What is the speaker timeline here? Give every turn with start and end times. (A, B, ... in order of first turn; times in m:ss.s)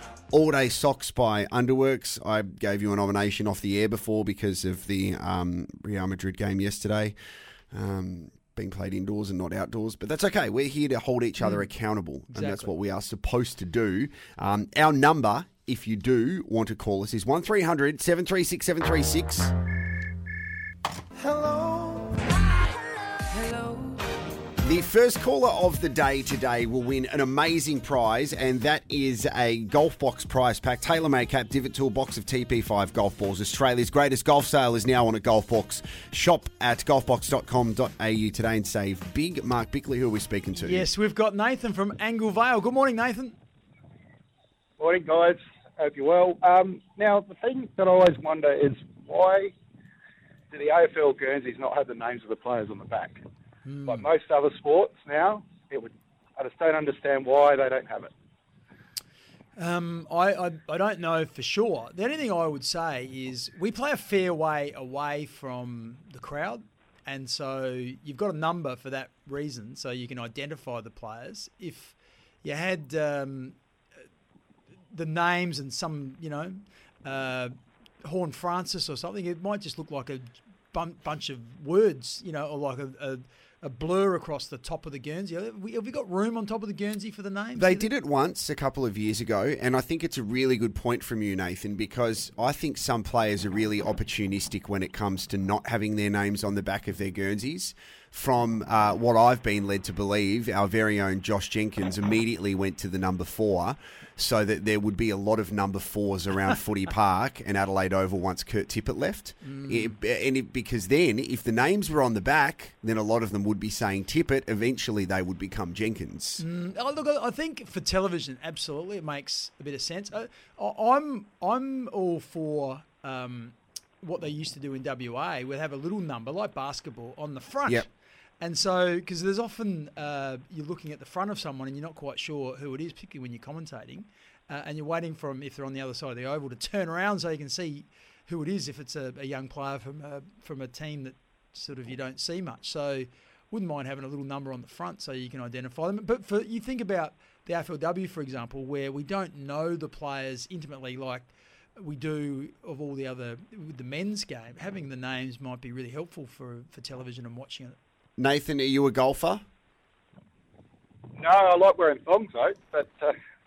0:00.3-0:07.1 A
0:07.7-0:19.5 A
0:11.4-0:11.7 B
0:12.3-0:12.7 B
0:24.6-0:40.8 A
0:40.6-0:43.4 B
0:44.8-0:49.5 C
0:50.5-0:53.2 C
0:53.6-0:54.0 B
0:53.9-0:58.1 C
0:59.6-1:13.6 B
1:14.9-1:27.9 B
1:27.6-1:56.4 A
1:49.4-1:50.0 B
1:56.4-2:37.8 B
2:38.2-2:39.4 A
2:41.1-2:43.1 C